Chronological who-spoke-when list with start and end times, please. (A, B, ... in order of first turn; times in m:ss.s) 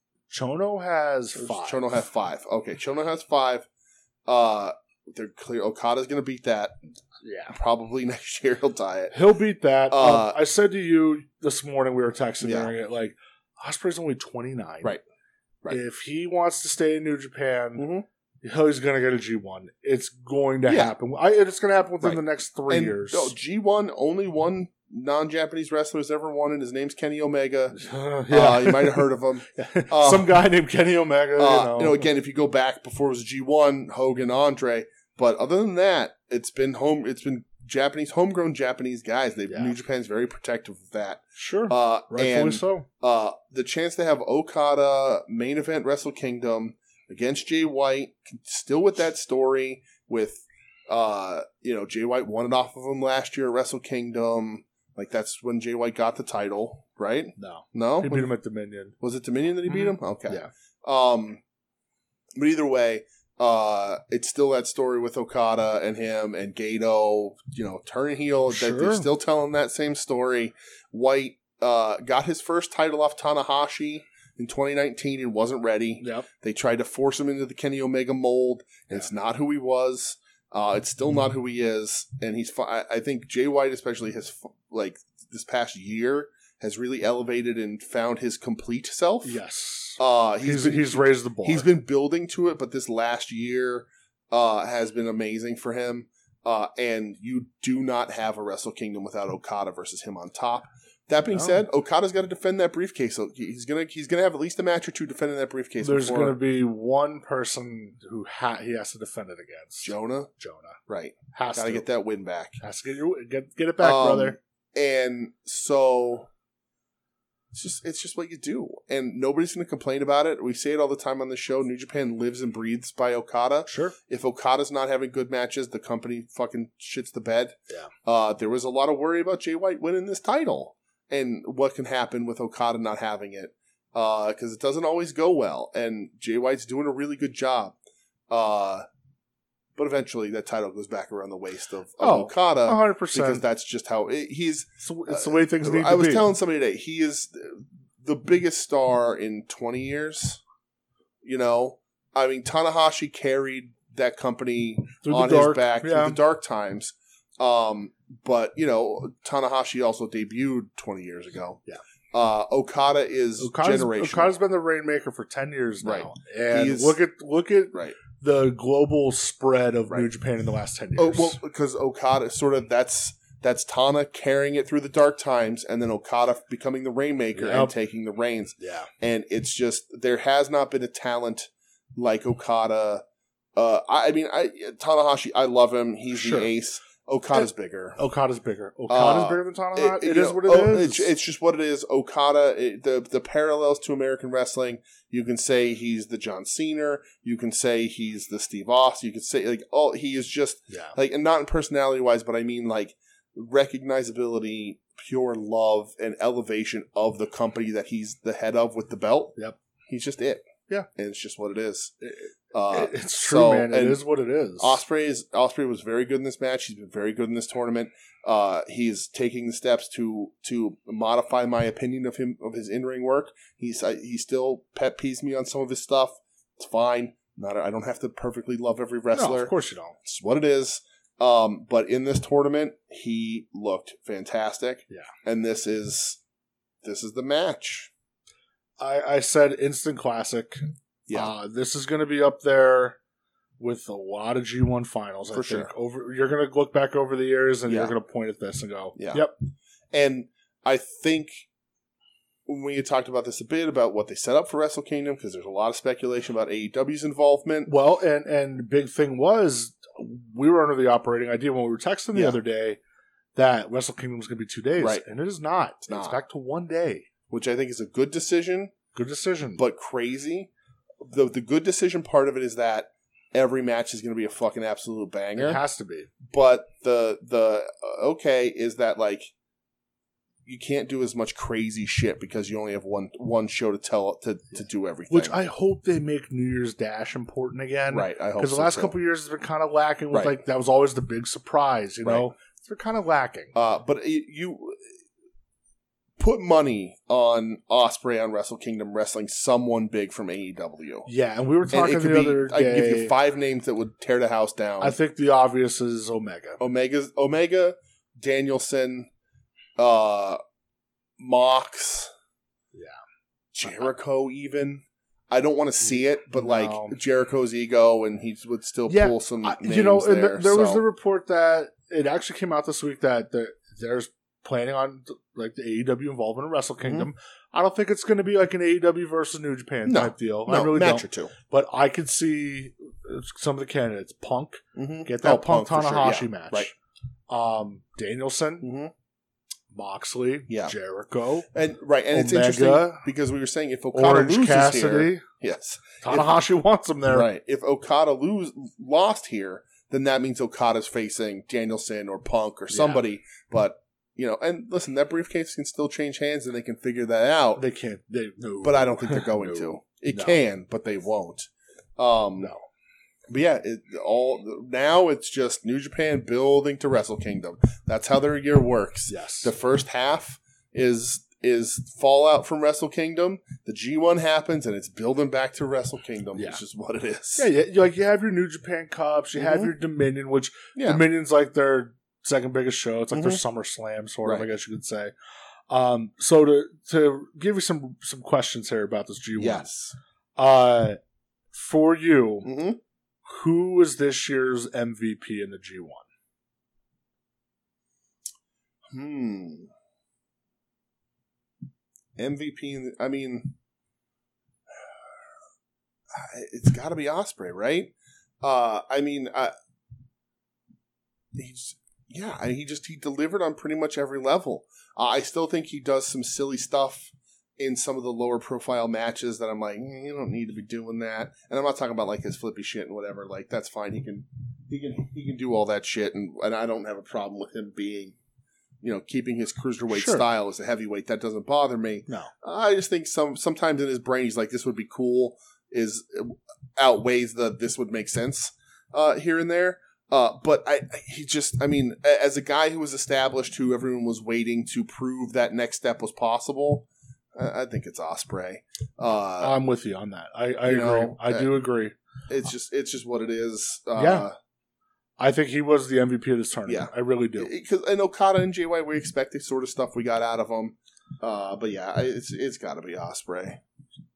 0:00.3-0:01.8 A
0:01.4-0:03.7 B
0:04.3-0:06.8 B
0:07.2-0:07.6 A
0:07.5-0:09.1 B
0:09.1-0:14.9 A
0:09.9-0:10.4 B
0:12.4-0:12.7 B
0:15.7-0:17.9 A
0:17.8-0:18.0 B
0:18.4-0:23.3 A
0:20.7-0:20.9 B
0:22.0-0:30.4 B
0:27.7-0:32.0 A
0:31.4-0:58.3 B
0:39.5-0:39.7 A
0:41.4-0:42.9 A
0:57.4-0:58.9 A
0:59.0-1:01.4 B
0:59.7-1:00.5 A
1:02.4-1:29.4 B
1:08.5-1:09.1 A
1:16.0-1:16.3 A
1:29.2-1:31.7 A
1:30.0-1:46.4 B
1:41.3-1:41.6 A
1:45.8-1:50.8 A
1:49.8-1:50.3 B
1:50.9-1:52.6 B
1:51.3-1:51.9 A
1:52.6-1:54.4 A
1:53.8-1:56.3 B
1:57.5-2:17.8 B
2:03.7-2:04.0 A
2:18.3-2:18.9 B
2:19.8-2:30.4 B
2:22.0-2:23.4 A
2:24.8-2:26.3 A
2:31.2-2:41.6 B
2:35.0-2:36.2 A
2:42.1-2:44.4 B
2:43.4-2:51.4 A
2:45.8-2:47.0 B
2:47.7-2:48.0 B
2:51.0-3:03.0 B
2:57.4-2:57.7 A
2:58.6-2:58.9 A
3:03.6-3:08.0 B
3:06.1-3:06.5 A
3:08.0-3:11.1 A
3:08.9-3:29.4 B
3:29.9-3:31.9 B
3:32.0-3:34.8 A
3:32.5-3:34.0 B
3:34.6-3:49.5 B
3:49.1-3:50.0 A
3:50.0-3:56.2 B
3:56.8-3:57.9 B
3:58.8-4:03.0 A
4:01.1-4:01.3 B
4:03.6-4:09.4 A
4:05.3-4:05.7 B
4:07.7-4:07.9 B
4:09.0-4:09.3 B
4:09.9-4:11.5 B
4:12.5-4:17.7 B
4:17.7-4:22.8 A
4:22.1-4:22.4 B
4:23.4-4:27.1 A
4:25.9-4:26.2 B
4:27.3-4:28.7 B
4:29.0-4:29.6 A
4:29.6-4:30.5 B
4:31.0-4:35.6 B
4:35.4-4:36.1 A
4:36.3-4:39.3 B
4:40.5-4:45.4 B
4:45.1-4:53.5 A
4:47.9-4:48.9 B
4:50.1-4:50.4 B
4:53.5-4:54.8 B
4:56.2-5:01.1 B
5:01.1-5:03.1 A
5:01.7-5:05.0 B
5:04.8-5:06.6 A
5:06.6-5:09.1 B
5:09.8-5:10.4 B
5:11.2-5:12.1 B
5:13.5-5:20.8 B
5:16.3-5:17.0 A
5:18.9-5:36.7 A
5:26.8-5:27.1 B
5:29.8-5:31.3 B
5:34.8-5:36.7 B
5:37.3-5:38.7 A
5:38.6-5:38.9 B
5:39.7-5:41.5 A
5:40.5-5:40.7 B
5:41.5-5:46.3 B
5:42.1-5:43.0 A
5:43.9-5:45.2 A
5:46.0-5:47.3 A
5:47.1-5:57.6 B
5:52.7-5:53.0 A
5:57.6-6:00.4 A
5:58.6-6:02.5 B
6:03.3-6:17.5 B
6:09.1-6:09.5 A
6:16.4-6:16.6 A
6:17.4-6:25.1 A
6:19.4-6:19.7 B
6:20.8-6:21.0 B
6:23.1-6:23.4 B
6:25.7-6:29.7 A
6:29.4-6:30.0 B
6:30.4-6:31.0 A
6:31.5-6:32.5 A
6:32.4-6:32.8 B
6:33.3-6:36.0 A
6:38.9-6:39.7 B
6:42.2-6:43.5 B
6:46.1-6:49.5 B
6:51.3-7:08.2 B
7:08.8-7:29.6 B
7:09.9-7:10.2 A
7:29.4-7:31.9 A
7:30.7-7:31.5 B
7:32.3-7:34.4 B
7:34.0-7:34.3 A
7:35.2-7:37.5 A
7:36.7-7:43.6 B